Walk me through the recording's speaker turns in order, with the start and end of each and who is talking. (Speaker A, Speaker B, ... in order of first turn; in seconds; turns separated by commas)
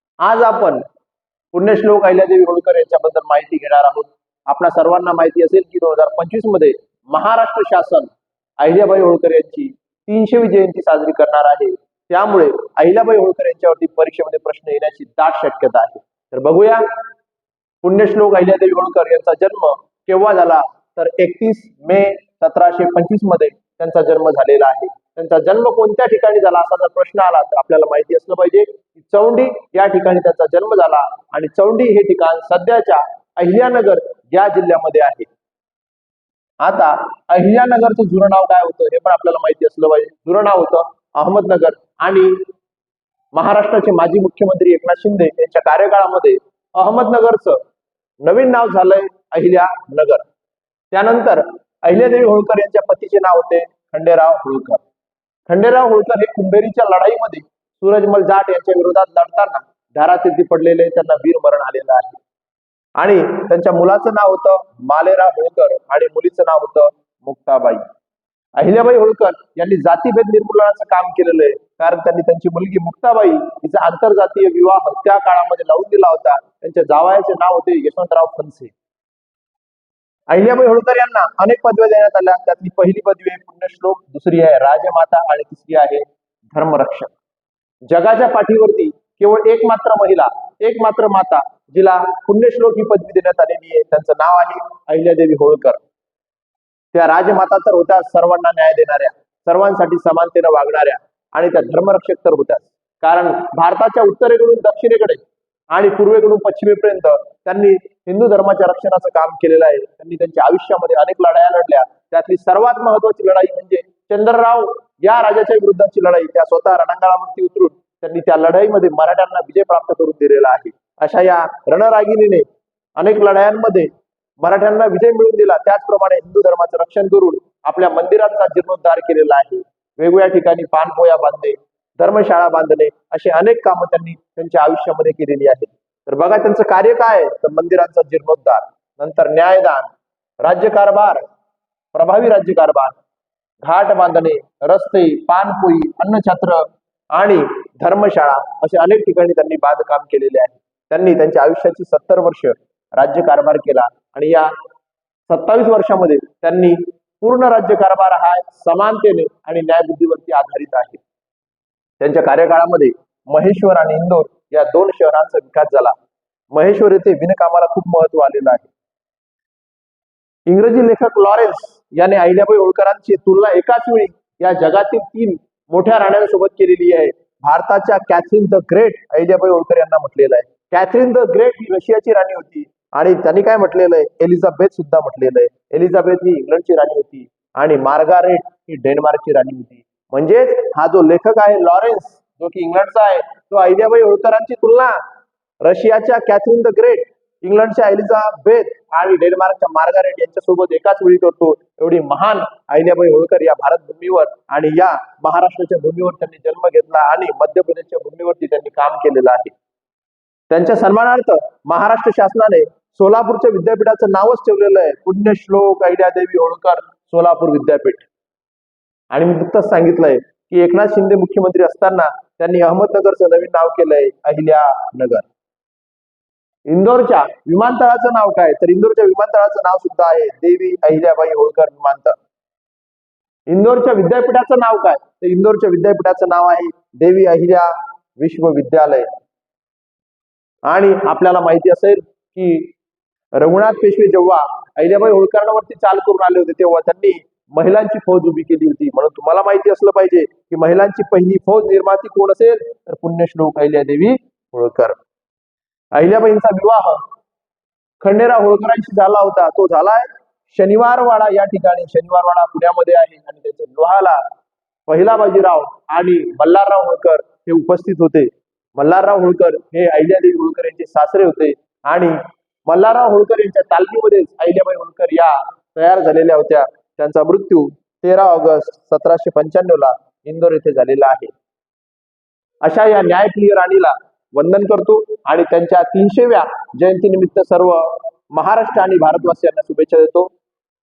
Speaker A: 0.2-0.8, Speaker A: 1.5-16.9, Speaker A: 17.8-35.3, Speaker A: 36.6-42.4, Speaker A: 43.3-47.6, Speaker A: 48.2-50.2, Speaker A: 50.9-54.8, Speaker A: 55.5-62.2, Speaker A: 63.0-67.8, Speaker A: 68.6-78.7, Speaker A: 80.3-87.1, Speaker A: 87.9-95.8, Speaker A: 96.9-122.5, Speaker A: 123.0-141.2, Speaker A: 141.9-143.0, Speaker A: 143.6-154.5, Speaker A: 155.3-161.0, Speaker A: 162.0-165.9, Speaker A: 166.5-168.7, Speaker A: 170.5-195.0, Speaker A: 195.6-209.5, Speaker A: 210.5-218.1, Speaker A: 219.1-225.2, Speaker A: 226.7-232.2, Speaker A: 233.5-239.1, Speaker A: 240.7-242.7, Speaker A: 243.4-255.0, Speaker A: 255.9-257.0, Speaker A: 258.0-264.2, Speaker A: 264.9-281.3, Speaker A: 282.6-290.3